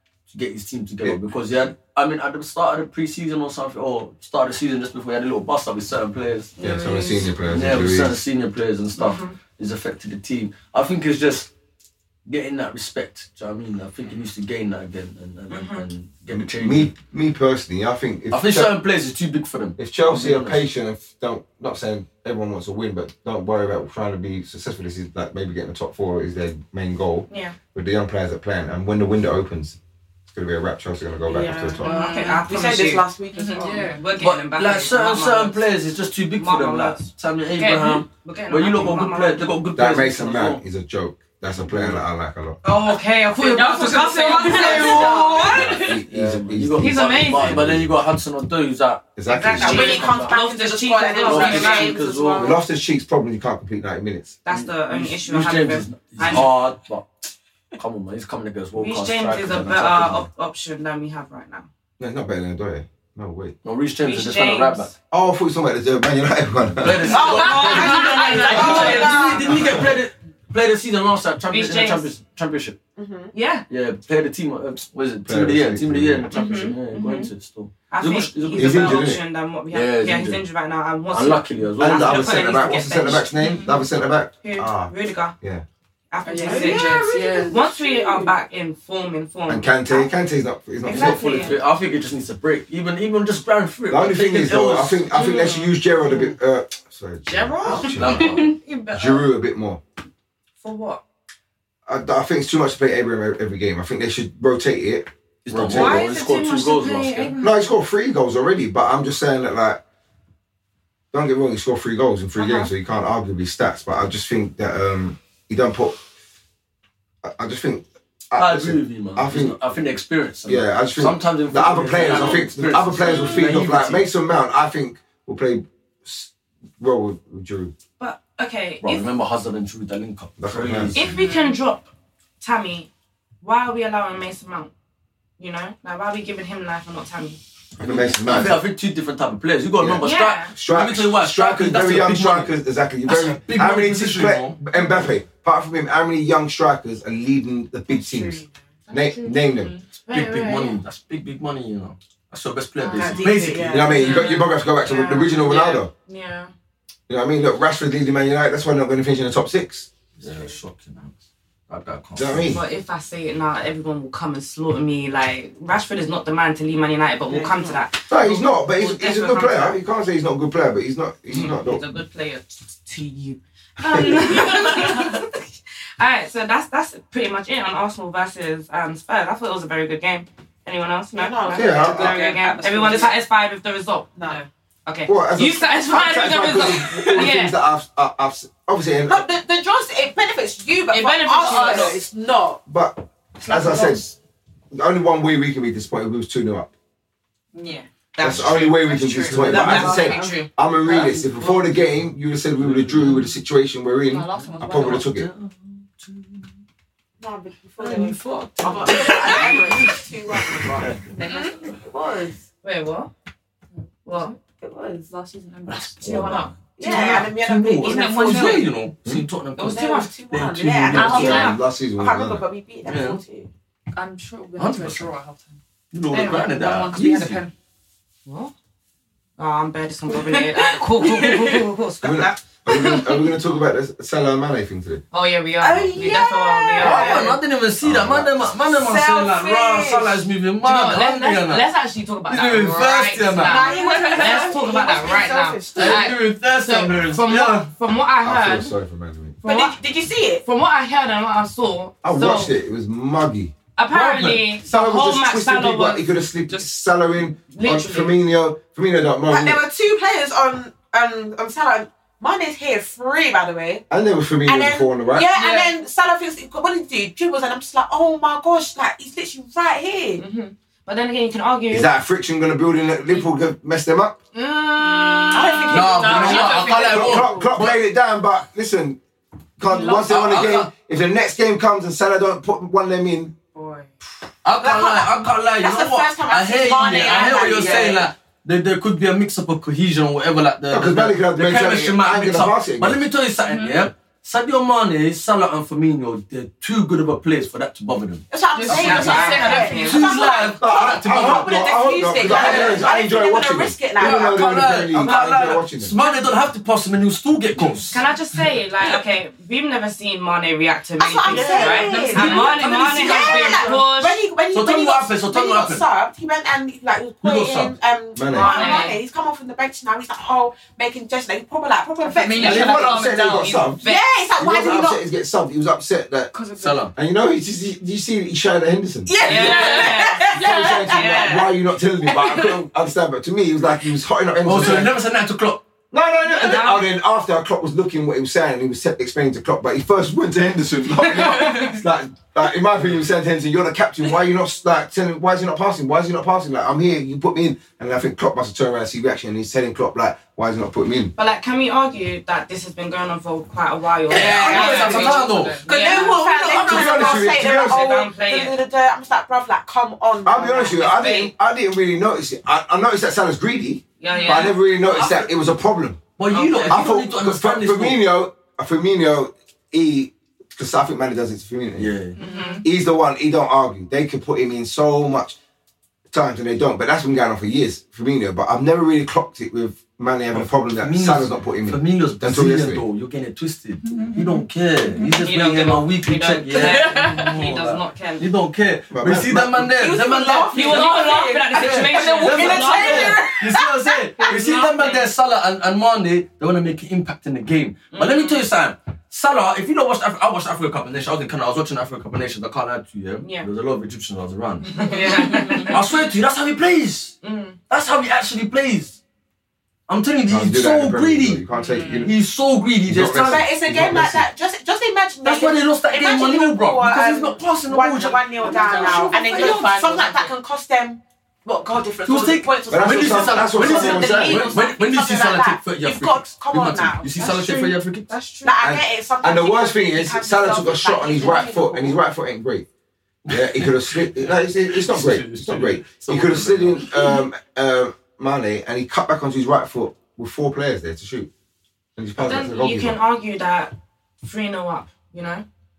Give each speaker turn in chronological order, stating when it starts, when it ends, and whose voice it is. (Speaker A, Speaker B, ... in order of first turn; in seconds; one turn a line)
Speaker A: 0.3-6.5
Speaker B: 1.0-1.3
Speaker C: 6.6-7.3
Speaker B: 6.6-8.2
Speaker A: 7.5-11.5
Speaker C: 9.0-9.3
Speaker A: 12.3-16.9
Speaker C: 15.5-15.8
Speaker B: 16.3-18.7
Speaker A: 18.3-20.6
Speaker B: 19.8-29.8
Speaker C: 27.3-27.6
Speaker B: 30.3-31.9
Speaker D: 31.3-34.0
Speaker E: 31.8-32.5
Speaker C: 31.8-33.1
Speaker E: 33.3-34.0
Speaker C: 33.9-35.6
Speaker A: 34.2-40.6
Speaker C: 36.4-37.1
Speaker C: 37.6-39.5
Speaker B: 39.8-42.6
Speaker A: 41.5-42.0
Speaker C: 42.6-45.9
Speaker E: 42.9-45.9
Speaker D: 44.2-45.6
Speaker B: 45.4-48.0
Speaker A: 46.1-49.1
Speaker C: 46.8-47.6
Speaker B: 49.2-50.2
Speaker C: 49.3-52.0
Speaker D: 49.5-52.6
Speaker A: 49.6-50.3
Speaker A: 51.2-52.5
Speaker E: 51.4-51.7
Speaker B: 52.4-54.4
Speaker C: 54.5-56.5
Speaker A: 54.5-57.1
Speaker A: 57.8-60.3
Speaker C: 58.8-61.7
Speaker B: 62.0-63.6
Speaker A: 63.6-64.9
Speaker C: 64.0-64.9
Speaker B: 65.1-67.2
Speaker A: 66.8-72.8
Speaker D: 67.1-69.8
Speaker C: 67.1-69.6
Speaker E: 67.2-69.4
Speaker B: 69.5-70.0
Speaker C: 71.5-72.1
Speaker D: 73.0-73.3
Speaker C: 73.3-73.7
Speaker A: 73.7-79.1
Speaker B: 75.3-76.3
Speaker C: 76.3-77.3
Speaker E: 76.4-76.7
Speaker C: 77.9-83.3
Speaker B: 78.6-79.2
Speaker A: 79.7-80.4
Speaker A: 81.1-82.5
Speaker B: 81.8-85.7
Speaker E: 83.4-83.8
Speaker C: 84.4-85.3
Speaker C: 86.1-90.1
Speaker E: 86.2-87.6
Speaker D: 86.4-88.3
Speaker B: 89.5-91.5
Speaker C: 90.8-91.6
Speaker A: 90.9-95.1
Speaker D: 91.0-91.5
Speaker B: 93.9-98.3
Speaker C: 95.1-95.8
Speaker A: 97.6-98.6
Speaker C: 98.3-99.3
Speaker B: 98.9-99.8
Speaker C: 100.6-101.0
Speaker B: 101.9-106.1
Speaker A: 105.5-107.4
Speaker C: 105.7-107.5
Speaker B: 107.4-109.8
Speaker B: 111.1-116.0
Speaker C: 112.4-112.7
Speaker B: 117.2-119.6
Speaker A: 118.4-124.0
Speaker B: 120.5-127.7
Speaker C: 122.1-122.4
Speaker C: 128.0-129.1
Speaker A: 128.8-131.1
Speaker B: 130.4-131.0
Speaker C: 130.9-131.9
Speaker E: 131.0-131.6
Speaker C: 132.4-132.9
Speaker C: 133.4-134.7
Speaker C: 135.4-137.4
Speaker B: 137.8-138.6
Speaker A: 137.8-142.5
Speaker B: 139.8-149.7
Speaker C: 140.0-140.5
Speaker A: 143.1-144.6
Speaker C: 148.1-150.8
Speaker E: 149.5-149.8
Speaker A: 150.1-153.9
Speaker D: 152.9-154.2
Speaker C: 152.9-153.2
Speaker B: 153.7-155.9
Speaker C: 153.9-156.5
Speaker B: 157.1-159.9
Speaker A: 160.2-161.2
Speaker A: 161.7-162.5
Speaker B: 162.2-162.6
Speaker C: 162.5-169.8
Speaker D: 167.3-167.8
Speaker B: 168.1-171.8
Speaker C: 171.3-175.5
Speaker B: 173.8-174.2
Speaker C: 176.0-184.2
Speaker D: 181.1-183.1
Speaker B: 181.5-182.2
Speaker E: 182.0-183.2
Speaker C: 184.9-187.6
Speaker B: 185.1-189.3
Speaker D: 189.1-192.6
Speaker C: 190.9-192.0
Speaker E: 191.4-192.0
Speaker B: 192.7-194.1
Speaker E: 193.5-194.0
Speaker B: 194.7-196.7
Speaker E: 197.6-197.9
Speaker C: 198.2-200.5
Speaker B: 198.2-205.3
Speaker E: 198.5-200.1
Speaker D: 199.3-200.4
Speaker A: 202.6-203.3
Speaker E: 204.1-205.1
Speaker A: 204.3-206.5
Speaker D: 207.2-212.4
Speaker E: 207.9-209.9
Speaker A: 208.7-209.9
Speaker C: 209.3-209.6
Speaker A: 210.7-211.0
Speaker E: 211.2-211.8
Speaker C: 212.6-213.1
Speaker E: 213.8-217.3
Speaker C: 214.1-214.3
Speaker D: 214.6-215.1
Speaker A: 215.7-221.5
Speaker D: 216.8-218.6
Speaker E: 217.8-218.8
Speaker C: 219.6-220.1
Speaker D: 219.6-223.5
Speaker B: 220.9-222.5
Speaker E: 220.9-221.6
Speaker A: 222.9-223.2
Speaker E: 223.9-225.6
Speaker A: 224.6-225.1
Speaker A: 225.9-227.4
Speaker E: 226.1-227.5
Speaker C: 228.3-228.5
Speaker C: 229.4-233.3
Speaker E: 230.3-231.6
Speaker B: 232.0-235.0
Speaker C: 235.1-237.3
Speaker D: 235.6-237.4
Speaker A: 236.8-241.7
Speaker B: 237.8-238.5
Speaker D: 238.7-240.3
Speaker C: 240.6-248.7
Speaker A: 242.3-243.9
Speaker D: 243.4-246.0
Speaker E: 243.7-244.9
Speaker A: 245.8-247.7
Speaker B: 248.2-249.4
Speaker C: 249.4-249.8
Speaker D: 249.4-250.4
Speaker C: 250.4-252.5
Speaker B: 252.0-253.5
Speaker C: 253.8-256.1
Speaker A: 253.9-254.5
Speaker B: 254.6-259.6
Speaker C: 257.5-258.2
Speaker D: 259.3-263.9
Speaker B: 263.9-265.3
Speaker D: 264.4-270.2
Speaker E: 265.3-265.7
Speaker C: 270.2-271.9
Speaker B: 271.7-274.2
Speaker C: 274.3-276.6
Speaker E: 274.8-277.6
Speaker D: 275.3-276.8
Speaker A: 275.7-277.8
Speaker B: 276.9-279.0
Speaker B: 279.6-283.4
Speaker E: 279.6-280.1
Speaker A: 279.9-280.7
Speaker E: 283.6-283.9
Speaker A: 284.4-301.6
Speaker D: 284.6-288.1
Speaker B: 290.7-293.0
Speaker E: 293.4-293.9
Speaker D: 298.3-304.3
Speaker E: 298.6-300.1
Speaker C: 298.7-300.4
Speaker B: 300.5-305.9
Speaker A: 302.2-302.9
Speaker A: 304.0-308.0
Speaker C: 305.1-305.4
Speaker C: 307.9-314.2
Speaker D: 311.0-322.9
Speaker E: 311.3-313.8
Speaker A: 314.5-315.9
Speaker A: 317.2-317.8
Speaker B: 318.1-318.6
Speaker C: 318.3-319.0
Speaker E: 318.4-319.0
Speaker E: 322.0-323.7
Speaker B: 322.4-323.8
Speaker C: 323.4-324.1
Speaker D: 323.8-325.0
Speaker B: 324.4-326.4
Speaker E: 326.3-326.9
Speaker A: 326.6-326.9
Speaker B: 326.9-335.0
Speaker D: 329.1-331.5
Speaker C: 329.2-330.3
Speaker E: 329.5-331.0
Speaker C: 330.9-331.5
Speaker D: 332.1-332.6
Speaker A: 334.4-335.6
Speaker B: 335.9-351.1
Speaker C: 336.2-336.9
Speaker E: 341.0-341.7
Speaker C: 351.2-358.6
Speaker A: 354.1-356.6
Speaker D: 354.1-361.0
Speaker E: 354.4-356.2
Speaker B: 356.7-357.9
Speaker B: 360.2-366.1
Speaker C: 360.6-361.3
Speaker C: 364.0-364.6
Speaker E: 364.1-364.5
Speaker A: 364.8-365.3
Speaker A: 366.2-368.0
Speaker C: 366.3-366.8
Speaker B: 366.6-371.9
Speaker A: 371.8-372.2
Speaker C: 372.2-372.6
Speaker E: 372.2-372.6
Speaker B: 372.6-375.4
Speaker B: 376.1-382.8
Speaker A: 380.3-391.0
Speaker E: 383.9-385.1
Speaker C: 385.1-388.3
Speaker E: 386.6-387.3
Speaker B: 388.9-389.7
Speaker D: 389.7-394.5
Speaker C: 390.5-393.2
Speaker A: 391.5-407.2
Speaker E: 392.0-393.2
Speaker C: 394.3-395.1
Speaker C: 397.9-398.4
Speaker C: 403.2-403.5
Speaker C: 404.8-405.8
Speaker E: 404.9-405.7
Speaker C: 407.2-407.6
Speaker A: 407.7-409.0
Speaker A: 409.9-413.5
Speaker B: 410.3-412.1
Speaker E: 411.5-412.1
Speaker B: 412.9-414.3
Speaker D: 413.2-427.6
Speaker A: 415.2-419.1
Speaker E: 418.4-420.3
Speaker A: 422.1-428.1
Speaker B: 422.7-424.6
Speaker C: 428.1-428.6
Speaker D: 428.4-432.0
Speaker B: 428.6-432.7
Speaker A: 433.3-437.1
Speaker B: 433.3-441.3
Speaker B: 442.0-443.0
Speaker C: 442.2-445.4